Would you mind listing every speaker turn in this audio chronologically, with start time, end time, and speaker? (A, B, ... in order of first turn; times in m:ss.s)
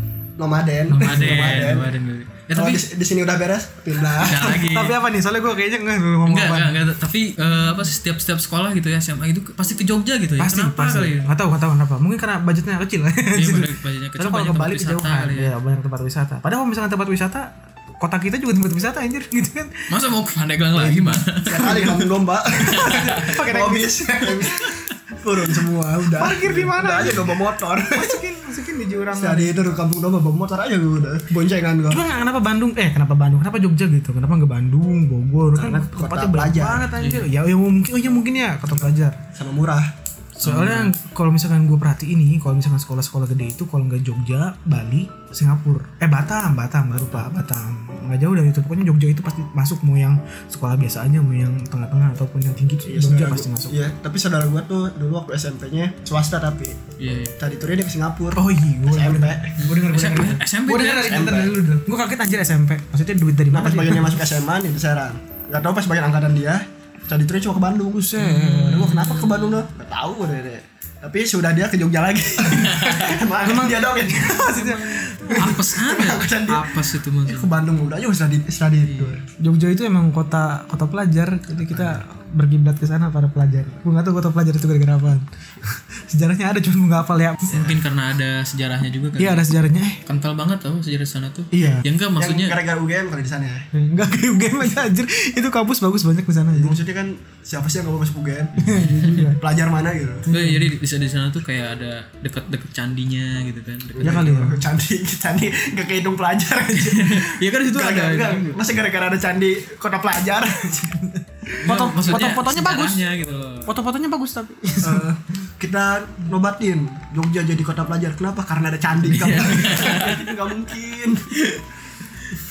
0:00.4-0:01.9 A
0:00.9-0:01.7 B
0:00.9-0:02.8 C
0:02.5-0:04.7 A
0:04.2-0:05.0 C
0:04.4-0:06.8 B
0:06.2-0:11.3 C
0:10.4-0:19.9 B
0:13.3-0:15.5 C
0:19.9-0:22.1 C
0:20.8-0:21.1 B
0:21.4-0:28.2 A
0:21.6-0:21.9 B
0:22.6-0:23.4 C
0:22.6-0:24.6 B
0:26.1-0:29.6 B
0:29.1-0:32.0 A
0:31.9-0:39.2 B
0:35.6-0:36.9 A
0:37.0-0:37.3 C
0:39.3-0:39.9 A
0:40.4-0:53.8 B
0:40.4-0:40.9 C
0:52.9-0:56.8 A
0:57.0-0:57.4 C
0:57.4-0:59.6 A
0:58.4-1:04.2 B
0:59.6-1:01.3 C
1:01.0-1:01.6 A
1:03.5-1:19.2 A
1:08.0-1:09.0 B
1:08.2-1:09.6 C
1:12.5-1:13.2 C
1:13.4-1:15.6 B
1:15.2-1:17.5 C
1:18.8-1:19.2 C
1:19.4-1:27.8 B
1:21.7-1:22.0 C
1:27.5-1:29.4 C
1:29.2-1:30.0 B
1:30.0-1:32.6 C
1:31.5-1:31.8 B
1:32.2-1:33.7 A
1:33.7-1:36.8 B
1:36.5-1:38.5 A
1:38.6-1:39.4 B
1:38.6-1:39.2 C
1:39.4-1:40.3 A
1:40.3-1:40.7 B
1:40.3-1:44.4 C
1:44.0-1:51.0 A
1:44.0-1:44.6 B
1:46.7-1:48.6 C
1:51.0-1:53.1 B
1:51.6-1:53.7 C
1:53.7-1:55.1 B
1:54.8-2:01.3 A
1:59.0-2:00.3 C
2:01.3-2:01.6 C